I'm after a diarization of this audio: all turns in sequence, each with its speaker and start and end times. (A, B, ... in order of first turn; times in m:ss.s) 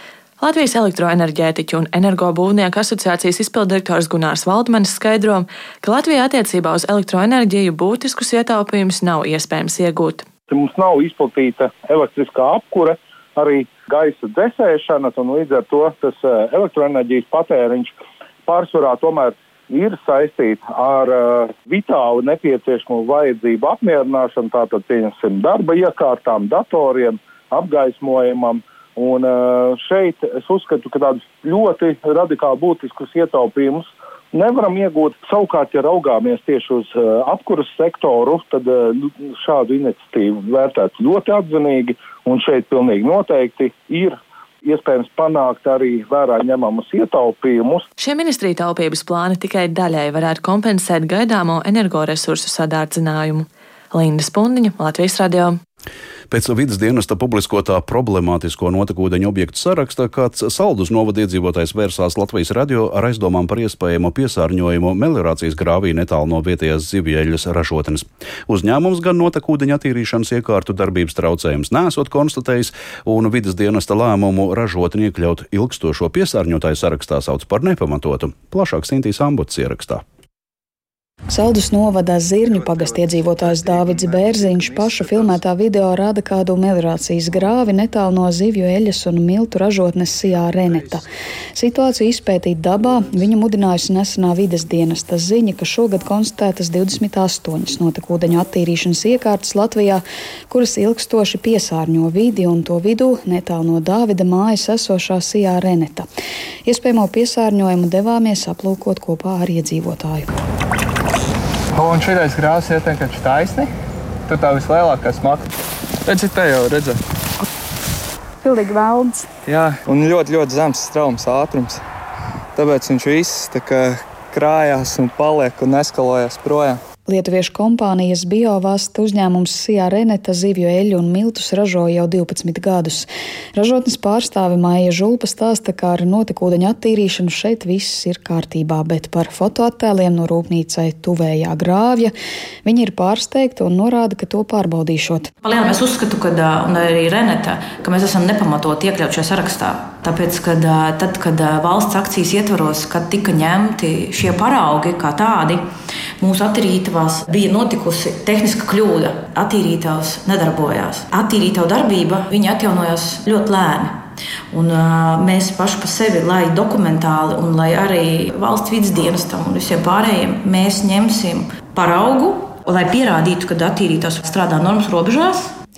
0:00.4-0:10.3 A
0:10.5-0:17.9 B
0:18.5-0:47.8 B
0:48.0-0:55.6 A
0:56.3-1:20.0 C
1:21.3-1:46.1 D
1:46.7-1:50.3 D
1:51.7-1:53.7 E
1:54.3-1:55.5 E
1:56.1-1:57.0 E
1:58.4-1:59.3 D
1:59.4-2:01.8 E
2:02.6-2:06.8 E
2:07.1-2:22.1 D
2:22.6-2:25.3 D
2:25.4-2:35.7 F
2:36.2-2:55.5 F